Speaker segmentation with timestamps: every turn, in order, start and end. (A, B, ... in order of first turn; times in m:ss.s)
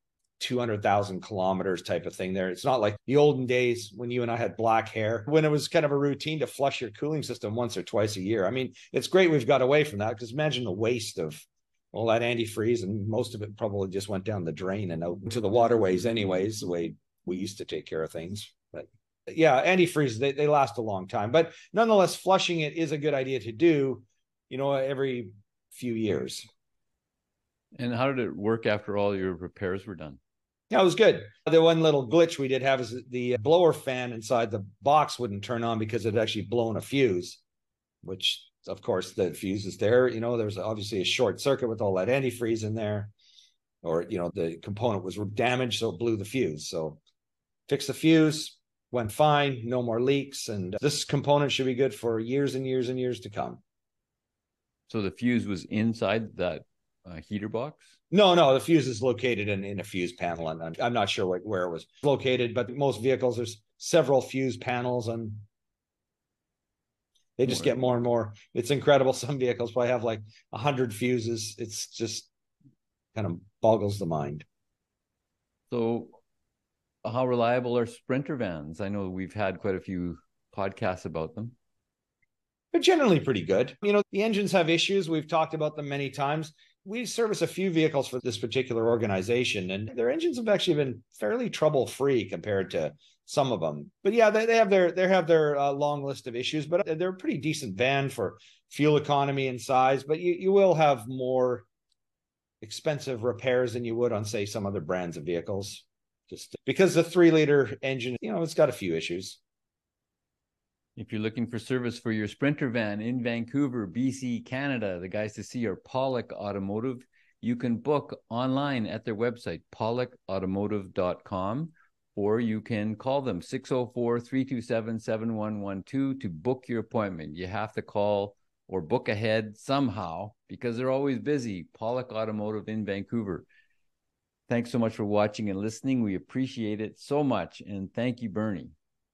0:00.4-0:26.4 A
0:27.8-0:30.2 B
0:30.7-0:37.4 A
0:38.0-0:43.1 A
0:43.8-0:47.0 A
0:47.7-0:53.6 A
0:54.9-0:57.9 B
0:58.1-1:05.4 A
1:07.4-1:12.3 A
1:07.4-1:07.7 B
1:13.1-1:14.4 A
1:15.7-1:16.2 B
1:17.0-1:21.5 B
1:22.7-1:41.7 A
1:42.6-1:49.4 A
1:51.0-2:13.5 B
2:14.5-2:18.7 B